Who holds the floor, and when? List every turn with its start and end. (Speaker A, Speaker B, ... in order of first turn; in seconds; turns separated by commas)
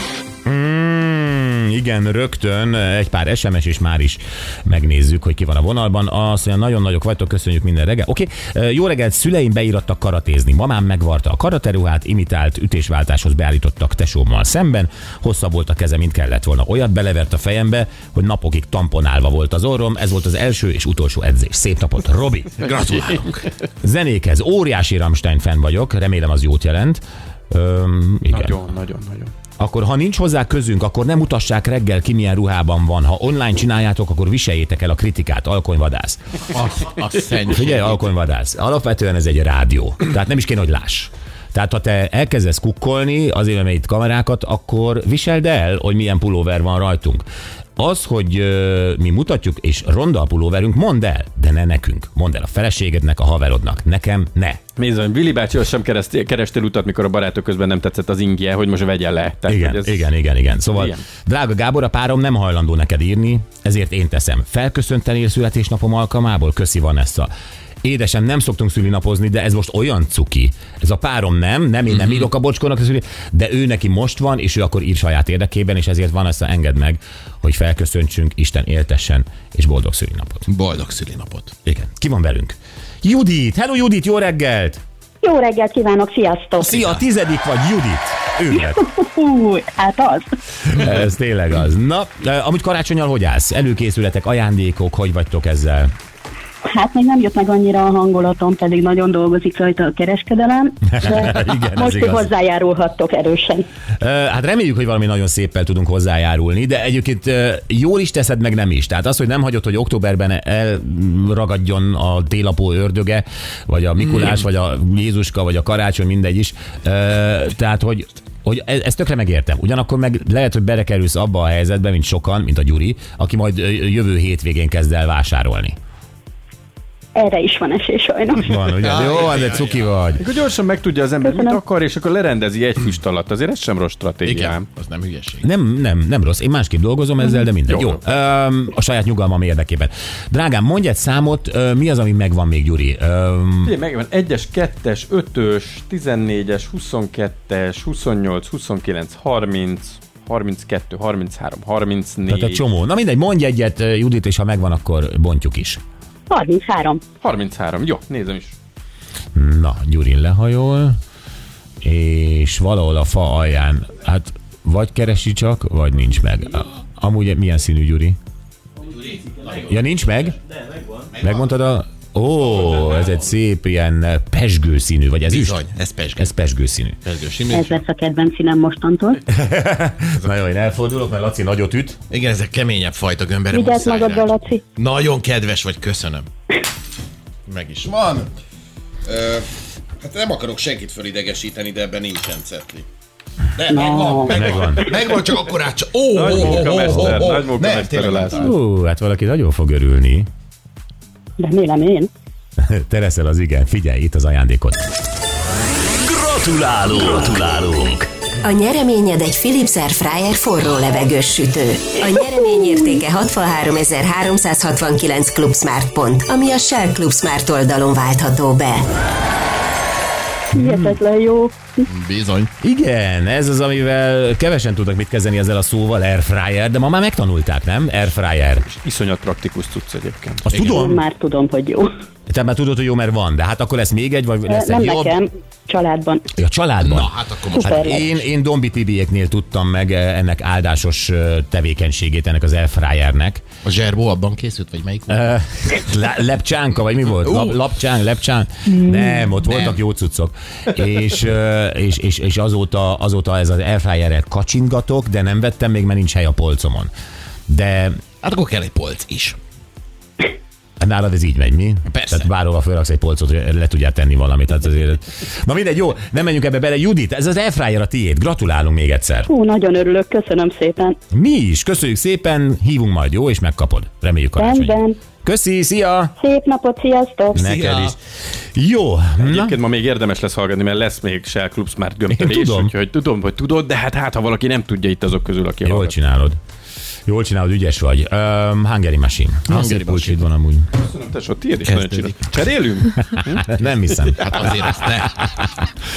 Speaker A: 0.5-22.6, Speaker B: 22.6-23.4, Speaker A: 23.8-28.6, Speaker C: 28.3-29.3, Speaker A: 29.6-36.2, Speaker B: 36.5-38.1, Speaker A: 37.5-47.2, Speaker A: 47.8-54.6, Speaker C: 54.8-60.1, Speaker A: 59.5-67.3, Speaker C: 60.7-61.0, Speaker A: 67.8-80.5, Speaker B: 71.9-72.3, Speaker B: 80.5-81.5, Speaker A: 81.7-84.8, Speaker D: 85.2-87.0, Speaker A: 86.6-88.8, Speaker D: 88.5-90.3, Speaker A: 90.7-95.9, Speaker D: 96.7-103.7, Speaker A: 101.0-102.3, Speaker A: 104.0-125.8, Speaker D: 127.2-128.6, Speaker A: 128.4-130.2, Speaker B: 128.8-129.9, Speaker C: 130.2-134.7, Speaker D: 131.2-131.6, Speaker B: 134.2-135.4, Speaker A: 135.4-143.8, Speaker C: 143.6-152.6, Speaker A: 152.3-155.8, Speaker D: 156.3-157.0, Speaker C: 157.2-158.5, Speaker A: 159.3-161.0, Speaker A: 161.8-168.2, Speaker A: 169.6-170.4, Speaker A: 171.2-175.6, Speaker B: 175.3-176.3, Speaker A: 176.2-177.0, Speaker B: 177.1-177.8, Speaker D: 177.5-179.2, Speaker A: 179.3-182.0, Speaker B: 182.1-186.3, Speaker D: 183.5-184.6, Speaker B: 187.5-188.3, Speaker B: 189.1-189.5, Speaker B: 190.0-192.9, Speaker B: 193.6-198.5, Speaker D: 193.7-194.4, Speaker A: 194.3-194.9, Speaker C: 196.1-198.5, Speaker A: 198.3-200.3, Speaker D: 201.4-202.1, Speaker A: 202.6-204.8, Speaker E: 206.0-208.1, Speaker F: 208.4-218.9, Speaker D: 212.6-213.0, Speaker D: 220.5-221.8, Speaker A: 220.5-221.0, Speaker B: 221.9-222.5, Speaker A: 222.6-228.7, Speaker C: 228.7-230.5, Speaker B: 230.5-230.8, Speaker A: 230.5-231.0, Speaker D: 230.6-231.9, Speaker A: 232.3-235.2, Speaker D: 234.5-236.2, Speaker A: 236.4-243.4, Speaker B: 236.8-238.2, Speaker D: 237.5-238.0, Speaker B: 243.7-245.3, Speaker A: 245.1-256.9, Speaker B: 247.2-247.6, Speaker B: 249.4-249.8, Speaker A: 257.5-258.0, Speaker B: 258.2-259.4, Speaker A: 260.8-269.3, Speaker B: 261.9-262.3, Speaker D: 269.3-271.0, Speaker A: 271.1-276.1, Speaker D: 274.4-275.0, Speaker D: 276.2-277.5, Speaker A: 277.3-278.0, Speaker B: 277.4-277.9, Speaker A: 278.6-279.6, Speaker C: 279.2-286.0, Speaker A: 282.1-282.7, Speaker A: 285.6-286.4, Speaker A: 287.1-290.7, Speaker B: 289.5-290.2, Speaker C: 290.8-293.5, Speaker B: 291.6-292.2, Speaker A: 293.4-294.7, Speaker B: 294.2-295.2